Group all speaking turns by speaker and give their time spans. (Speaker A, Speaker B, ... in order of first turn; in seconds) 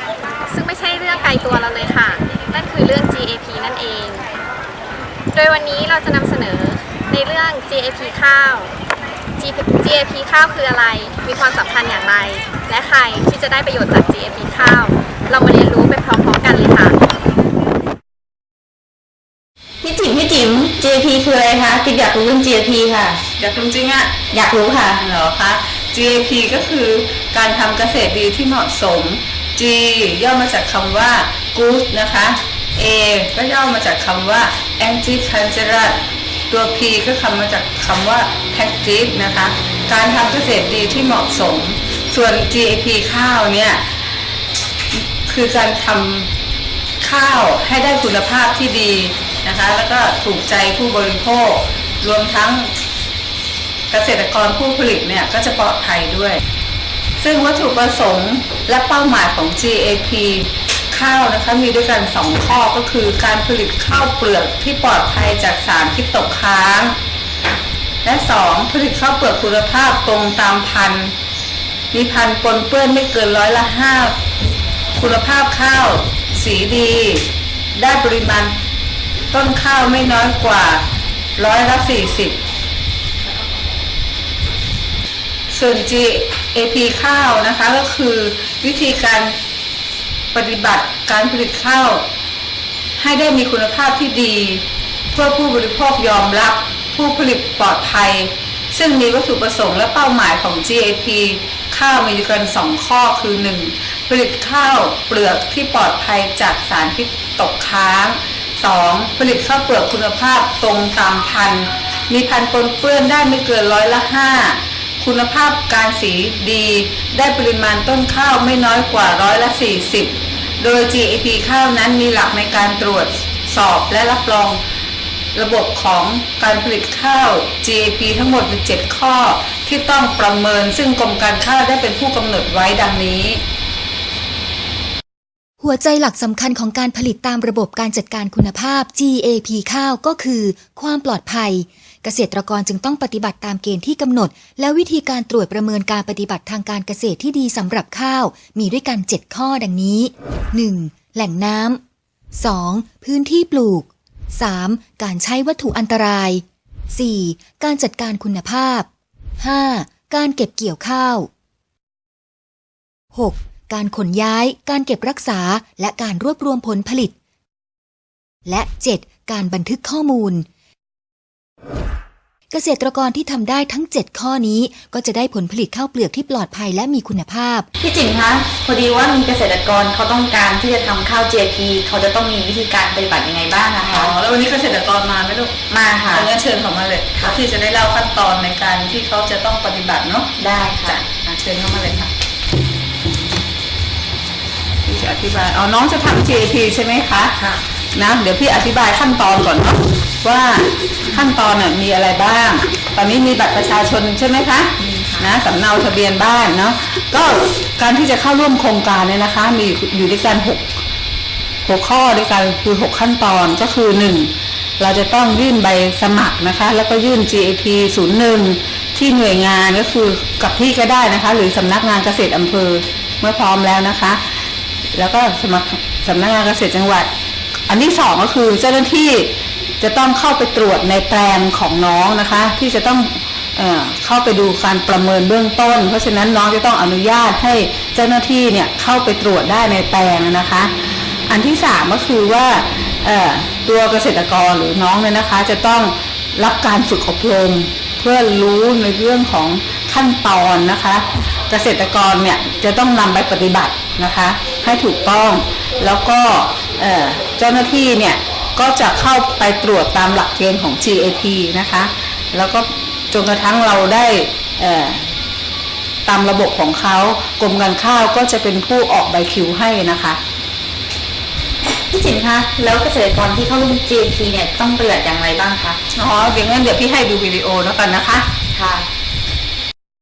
Speaker A: 0.5-4.3, 5.3-8.7, 9.4-17.0
Speaker B: 19.8-23.2, 24.3-25.0, 177.8-184.1, 185.7-186.3, 190.4-191.0, 204.8-205.3, 271.9-275.8, 278.5-278.9
Speaker C: 23.4-24.2, 25.0-43.9, 44.9-46.3, 47.0-52.7, 53.9-56.4, 57.2-67.0, 68.0-71.1, 71.9-74.2, 75.0-78.5, 79.3-80.8, 81.4-82.4, 85.5-89.3, 90.3-92.0, 93.0-124.6, 125.3-133.4, 183.8-190.3, 190.8-192.1, 194.8-197.4, 197.9-210.8, 211.6-227.1, 227.7-240.7, 241.3-265.2, 266.1-270.2, 275.9-278.3
Speaker D: 135.6-151.8, 152.3-158.9, 159.4-161.3, 163.1-167.2, 168.5-170.5, 172.5-177.7